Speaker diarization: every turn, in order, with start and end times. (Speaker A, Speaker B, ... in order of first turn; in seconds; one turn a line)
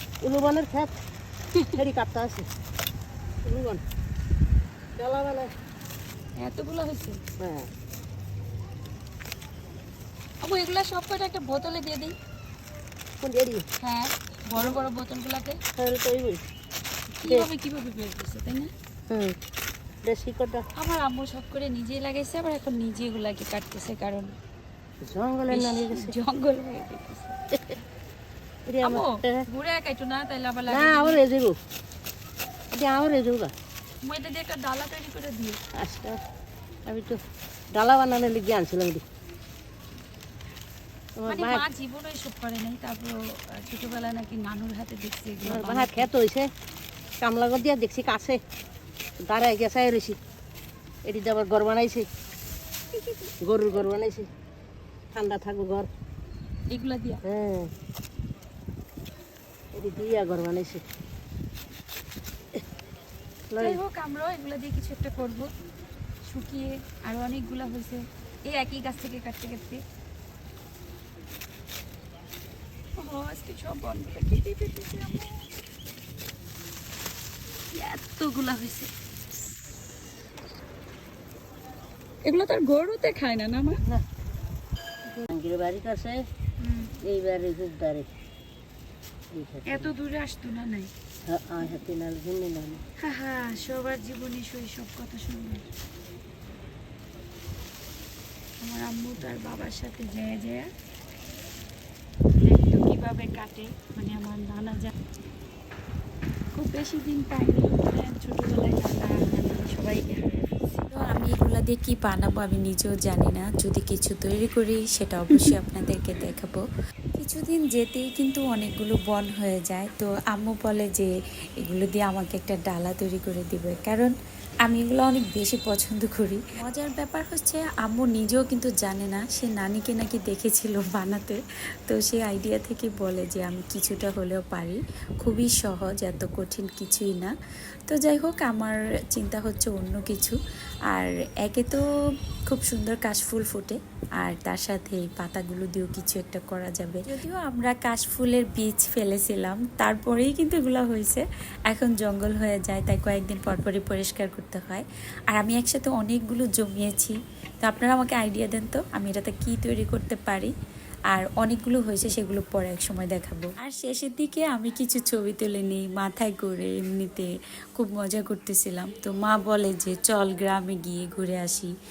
Speaker A: 0.2-0.9
Speaker A: 1.7-2.5
Speaker A: 3.5-3.8
Speaker A: 5.0-5.5
Speaker B: 6.4-7.2
Speaker A: 7.4-7.7
Speaker B: 10.4-12.2
Speaker A: 13.2-13.6
Speaker B: 13.8-15.6
Speaker A: 15.8-16.4
Speaker B: 17.2-18.7
Speaker A: 19.1-19.4
Speaker A: 20.1-20.6
Speaker B: 20.8-24.4
Speaker A: 25.0-26.1
Speaker B: 25.5-27.4
Speaker A: 28.7-29.4
Speaker B: 28.8-31.2
Speaker A: 30.7-31.6
Speaker A: 32.7-33.5
Speaker B: 34.0-35.6
Speaker A: 35.8-36.2
Speaker A: 36.9-37.2
Speaker A: 37.7-39.0
Speaker A: 41.2-41.6
Speaker B: 41.3-46.1
Speaker A: 45.4-46.5
Speaker A: 47.2-48.4
Speaker A: 49.2-50.2
Speaker A: 51.1-52.1
Speaker A: 53.4-54.3
Speaker A: 55.1-55.9
Speaker B: 56.7-57.2
Speaker A: 57.2-57.7
Speaker A: 59.8-60.8
Speaker A: 63.5-63.8
Speaker B: 63.6-65.5
Speaker B: 66.2-69.8
Speaker B: 73.0-75.5
Speaker B: 77.7-78.9
Speaker B: 82.2-83.8
Speaker A: 85.1-86.2
Speaker B: 86.6-86.9
Speaker A: 87.0-88.1
Speaker A: 89.3-89.9
Speaker B: 89.7-90.9
Speaker A: 91.3-92.8
Speaker B: 93.0-95.7
Speaker B: 98.6-100.7
Speaker B: 102.4-104.9
Speaker B: 106.6-110.6
Speaker C: 110.9-116.6
Speaker C: 117.2-121.1
Speaker C: 121.6-124.1
Speaker C: 124.7-137.3
Speaker C: 137.9-140.4
Speaker C: 140.9-141.8
Speaker C: 142.5-160.5
Speaker C: 161.1-171.7